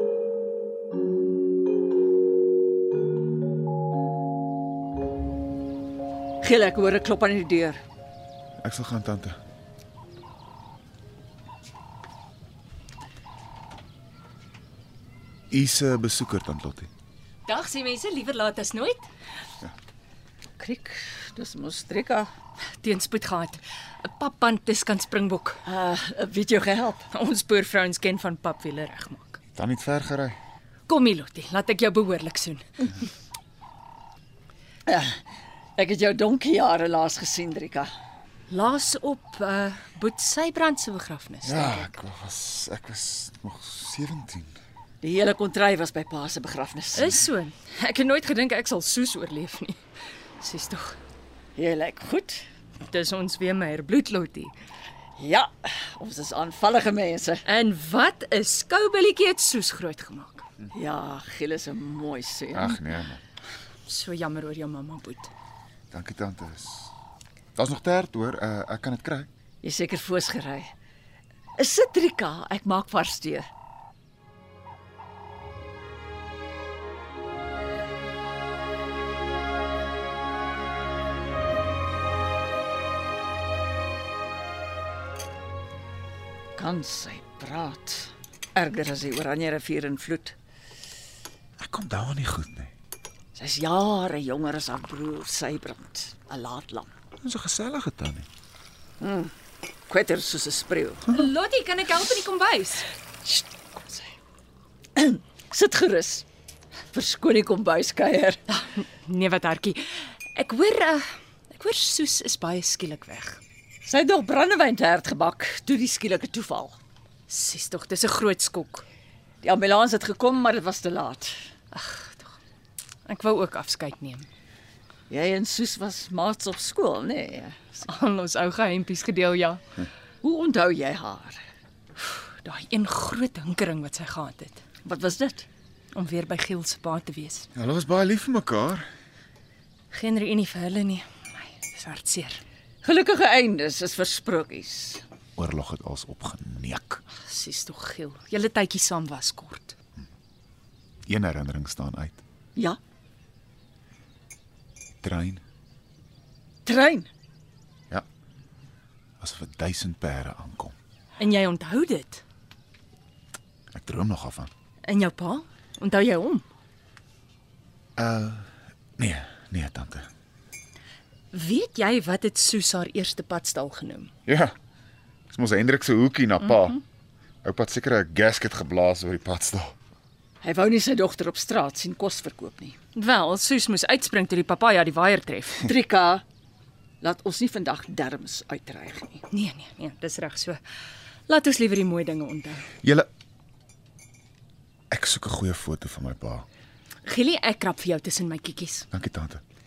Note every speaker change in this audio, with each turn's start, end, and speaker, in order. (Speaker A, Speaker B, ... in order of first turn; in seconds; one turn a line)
Speaker A: 6.4-7.8
Speaker B: 8.6-9.4
Speaker B: 15.5-16.9
Speaker C: 17.4-19.1
Speaker A: 20.6-22.3
Speaker C: 22.8-25.6
Speaker A: 25.6-27.1
Speaker C: 27.1-29.4
Speaker B: 29.5-30.4
Speaker C: 30.9-32.6
Speaker A: 34.9-35.2
Speaker A: 35.8-37.9
Speaker C: 38.5-41.9
Speaker B: 41.4-44.6
Speaker A: 45.0-47.2
Speaker C: 46.9-49.8
Speaker C: 50.4-51.0
Speaker A: 51.5-52.4
Speaker C: 52.8-54.5
Speaker A: 55.2-57.4
Speaker C: 57.4-60.4
Speaker A: 60.7-62.8
Speaker B: 62.5-63.2
Speaker C: 63.9-65.3
Speaker B: 65.9-66.9
Speaker B: 67.5-69.3
Speaker A: 69.6-70.7
Speaker A: 71.6-73.5
Speaker A: 86.5-90.3
Speaker B: 91.6-92.7
Speaker A: 93.3-96.9
Speaker B: 97.2-98.3
Speaker A: 99.0-99.3
Speaker A: 99.9-101.2
Speaker C: 101.1-102.8
Speaker A: 103.2-104.1
Speaker A: 105.0-106.2
Speaker A: 106.9-108.4
Speaker C: 108.5-113.4
Speaker A: 113.8-116.8
Speaker C: 117.3-118.8
Speaker A: 119.4-121.4
Speaker C: 121.7-122.4
Speaker C: 123.0-124.3
Speaker A: 125.1-127.8
Speaker C: 127.8-129.6
Speaker A: 130.2-131.4
Speaker C: 132.4-134.6
Speaker A: 134.8-135.5
Speaker C: 135.9-137.5
Speaker B: 137.5-138.9
Speaker C: 139.9-142.4
Speaker A: 142.8-145.0
Speaker B: 145.4-147.0
Speaker C: 147.2-149.8
Speaker B: 151.1-152.2
Speaker B: 155.0-155.4
Speaker A: 156.6-157.1
Speaker B: 159.2-160.8
Speaker C: 161.2-162.2
Speaker B: 163.7-164.5
Speaker C: 164.8-166.4
Speaker B: 168.0-170.1
Speaker C: 171.3-174.1
Speaker B: 174.2-174.5
Speaker B: 175.3-176.8
Speaker C: 176.4-176.8
Speaker B: 177.4-179.7
Speaker A: 180.4-182.8
Speaker C: 182.9-185.7
Speaker A: 185.6-186.2
Speaker A: 187.0-189.2
Speaker C: 189.3-190.6
Speaker C: 191.3-192.7
Speaker B: 192.8-193.1
Speaker B: 194.9-196.4
Speaker C: 197.0-198.9
Speaker B: 198.9-199.4